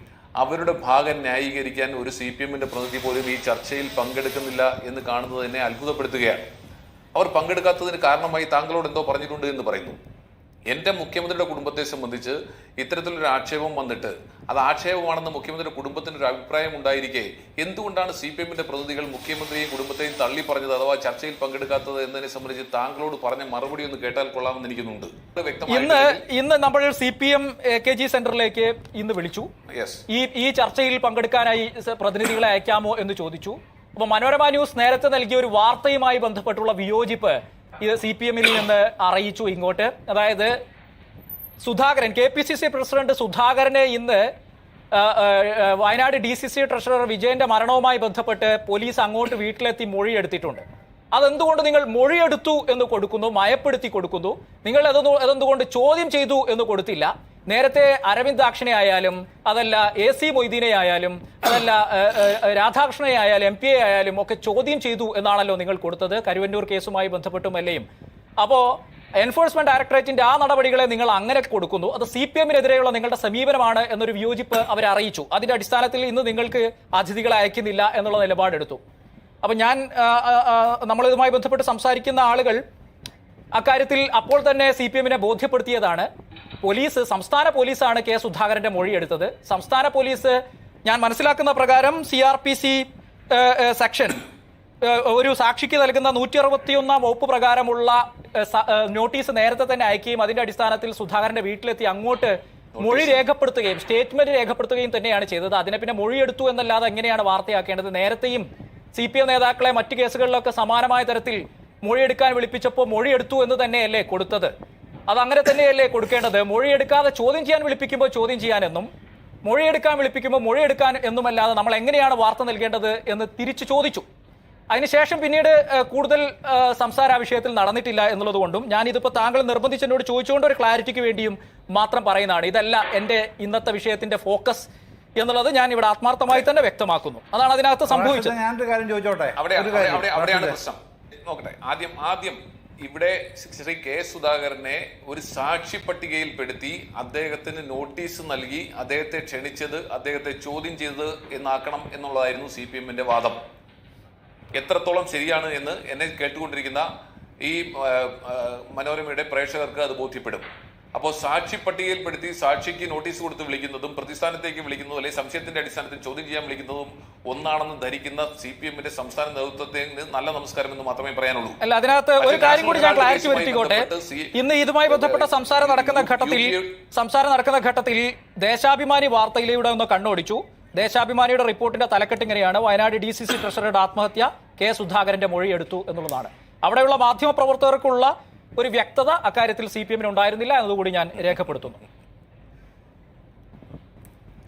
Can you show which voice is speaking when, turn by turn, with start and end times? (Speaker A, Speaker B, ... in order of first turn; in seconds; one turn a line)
Speaker A: 0.4-6.5
Speaker A: 7.2-10.0
Speaker A: 10.7-26.2
Speaker B: 25.7-29.5
Speaker A: 29.7-30.0
Speaker B: 30.1-40.5
Speaker B: 41.6-44.2
Speaker B: 44.9-67.8
Speaker B: 68.4-78.8
Speaker B: 79.4-82.6
Speaker B: 83.5-86.1
Speaker B: 86.6-94.2
Speaker B: 94.8-114.5
Speaker A: 102.8-103.2
Speaker B: 115.1-118.9
Speaker B: 119.5-124.1
Speaker B: 124.7-138.3
Speaker C: 137.9-140.6
Speaker A: 139.4-153.4
Speaker A: 154.6-156.9
Speaker A: 157.4-171.6
Speaker B: 171.6-191.8
Speaker A: 172.2-176.8